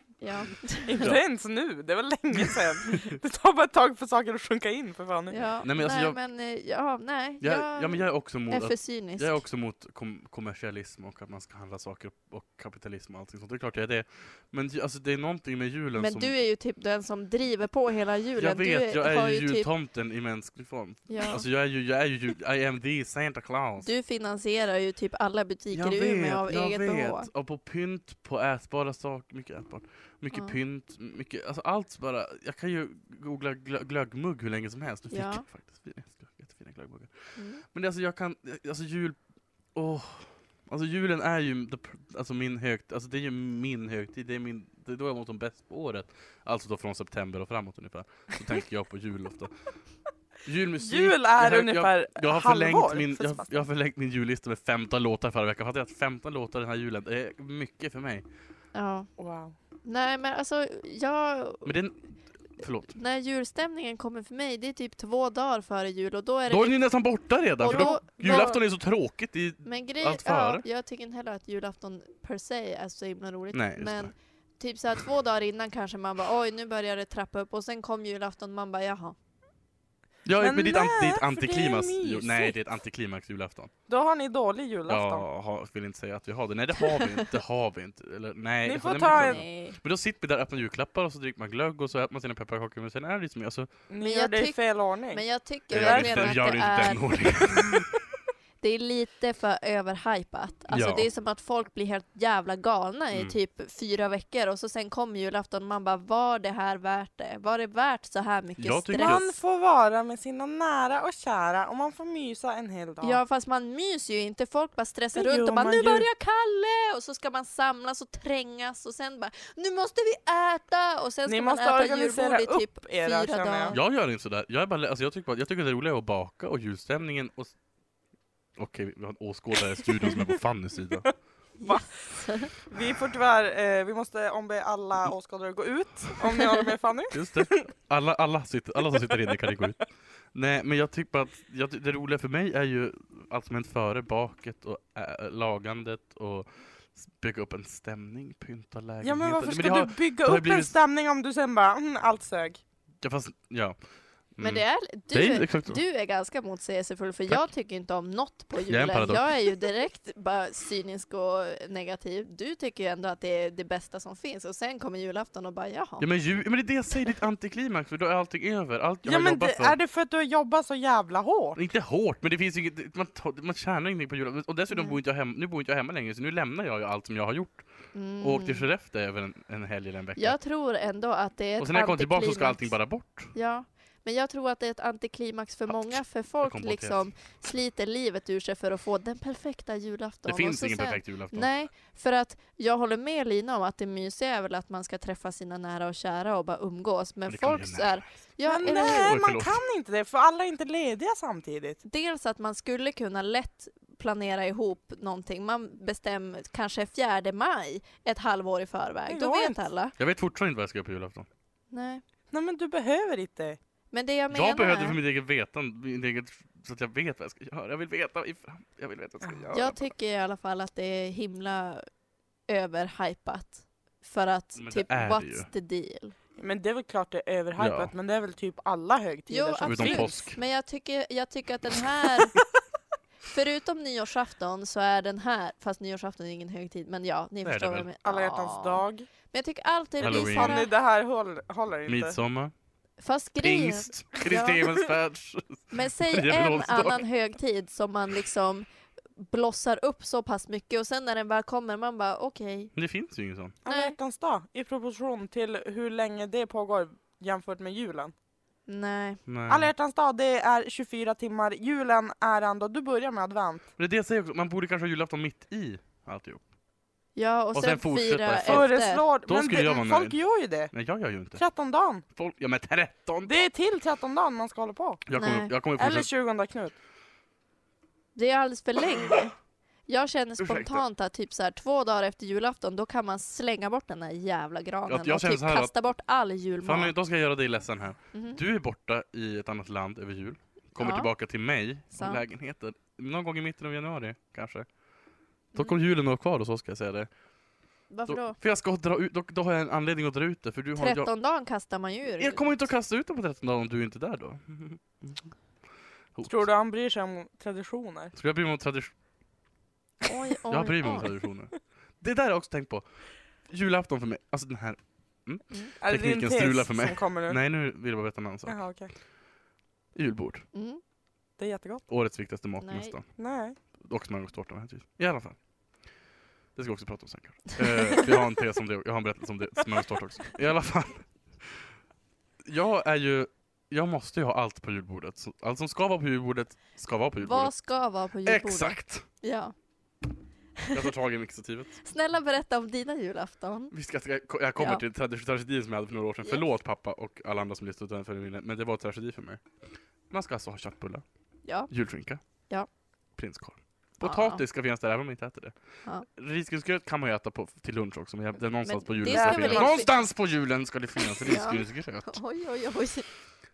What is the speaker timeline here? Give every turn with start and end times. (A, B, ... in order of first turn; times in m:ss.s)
0:00.2-0:01.1 A
0:00.8-0:05.4 B
0:02.4-0:03.1 C
0:05.3-0:09.4 A
0:05.6-0:06.2 C
0:07.4-0:16.3 C
0:16.0-0:19.7 A
0:18.4-0:23.9 C
0:21.1-0:21.4 A
0:23.8-0:27.3 A
0:25.7-0:37.1 C
0:30.3-0:30.6 A
0:35.1-0:35.4 A
0:37.4-0:37.6 A
0:37.6-0:39.2 C
0:39.7-0:49.5 C
0:50.4-0:58.2 C
0:50.8-0:53.6 B
0:58.7-0:59.1 A
0:59.2-0:59.5 B
0:59.8-1:01.7 A
1:01.6-1:02.0 C
1:02.6-1:02.9 C
1:02.9-1:06.8 A
1:06.5-1:10.6 C
1:07.6-1:08.6 A
1:07.6-1:08.5 B
1:09.6-1:19.2 A
1:13.5-1:14.1 C
1:20.2-1:23.7 C
1:20.4-1:22.5 B
1:23.9-1:25.2 B
1:24.9-1:33.7 C
1:28.6-1:29.4 B
1:29.1-1:29.8 A
1:33.9-1:36.4 B
1:34.0-1:37.3 A
1:35.7-1:37.9 C
1:38.6-1:49.3 A
1:40.7-1:41.1 C
1:48.6-1:49.3 C
1:49.0-1:53.2 B
1:53.0-2:03.8 A
1:55.1-1:56.0 B
2:01.2-2:03.8 B
2:03.7-2:07.5 C
2:08.6-2:11.1 C
2:11.6-2:12.5 A
2:11.6-2:17.6 B
2:17.1-2:19.8 C
2:19.3-2:19.6 B
2:20.3-2:30.7 C
2:29.0-2:32.6 B
2:33.0-2:33.8 C
2:34.3-2:35.8 C
2:34.4-2:46.1 A
2:38.7-2:39.3 C
2:46.0-2:49.8 C
2:49.0-2:51.6 B
2:51.6-2:57.6 C
2:54.7-2:55.0 A
2:57.9-2:58.6 A
2:58.2-3:00.4 C
3:00.2-3:02.7 A
3:01.6-3:03.3 C
3:03.3-3:19.1 A
3:05.7-3:07.1 C
3:10.2-3:11.5 C
3:17.3-3:18.1 C
3:18.5-3:21.8 B
3:18.6-3:19.6 C
3:21.8-3:29.9 A
3:29.1-3:29.6 B
3:30.0-3:31.3 C
3:31.7-3:32.0 A
3:32.3-3:33.6 B
3:33.9-3:35.0 A
3:34.3-3:39.9 C
3:39.5-3:41.8 A
3:42.5-3:46.1 A
3:44.6-3:45.5 C
3:46.4-3:50.2 B
3:47.6-3:47.9 C
3:49.3-3:52.4 A
3:49.6-3:50.4 C
3:53.3-4:00.7 A
3:57.4-3:57.9 C
3:58.0-3:59.1 B
4:00.0-4:00.6 C
4:00.0-4:02.2 B
4:01.8-4:02.5 C
4:03.0-4:04.6 A
4:03.4-4:07.0 C
4:05.7-4:12.7 A
4:12.7-4:13.6 C
4:13.6-4:18.1 B
4:13.6-4:14.0 A
4:18.7-4:19.2 A
4:19.3-4:19.7 C
4:19.5-4:23.7 B
4:23.8-4:26.4 C
4:27.2-4:29.0 A
4:27.5-4:28.7 C
4:28.4-4:30.7 B
4:29.3-4:30.2 C
4:30.7-4:31.4 C
4:31.3-4:32.0 B
4:32.1-4:33.4 C
4:33.2-4:35.0 B
4:35.0-4:36.1 C
4:35.1-4:35.5 A
4:35.8-4:36.7 B
4:38.1-4:39.3 A
4:39.9-4:46.9 A
4:40.4-4:40.8 C
4:44.9-4:45.7 C
4:46.6-4:54.7 C
4:48.1-4:48.4 A
4:50.8-4:51.1 A
4:51.9-4:52.2 A
4:55.5-4:57.1 C
4:57.9-4:58.4 A
4:58.1-5:01.1 C
5:00.8-5:02.5 A
5:02.2-5:05.3 C
5:06.1-5:06.4 C
5:06.2-5:08.1 B
5:08.1-5:08.9 C
5:10.0-5:11.1 A
5:10.5-5:12.8 C
5:13.5-5:18.6 C
5:15.8-5:17.4 B
5:18.5-5:18.9 B
5:19.9-5:20.4 C
5:20.5-5:20.8 A
5:21.4-5:21.8 B
5:21.9-5:23.0 C
5:22.6-5:23.0 A
5:23.2-5:23.6 B
5:23.8-5:25.4 C
5:26.5-5:31.7 C
5:32.4-5:37.5 C
5:37.2-5:39.5 A
5:38.2-5:39.0 C
5:40.7-5:41.8 C
5:41.8-5:43.7 A
5:43.7-5:49.4 C
5:44.6-5:44.8 A
5:50.1-5:51.0 C
5:51.4-5:51.7 A
5:51.7-5:52.2 C
5:53.2-5:55.5 C
5:54.0-5:54.4 A
5:56.2-6:02.2 C
5:58.6-5:59.9 A
5:59.1-5:59.9 B
6:01.2-6:03.1 A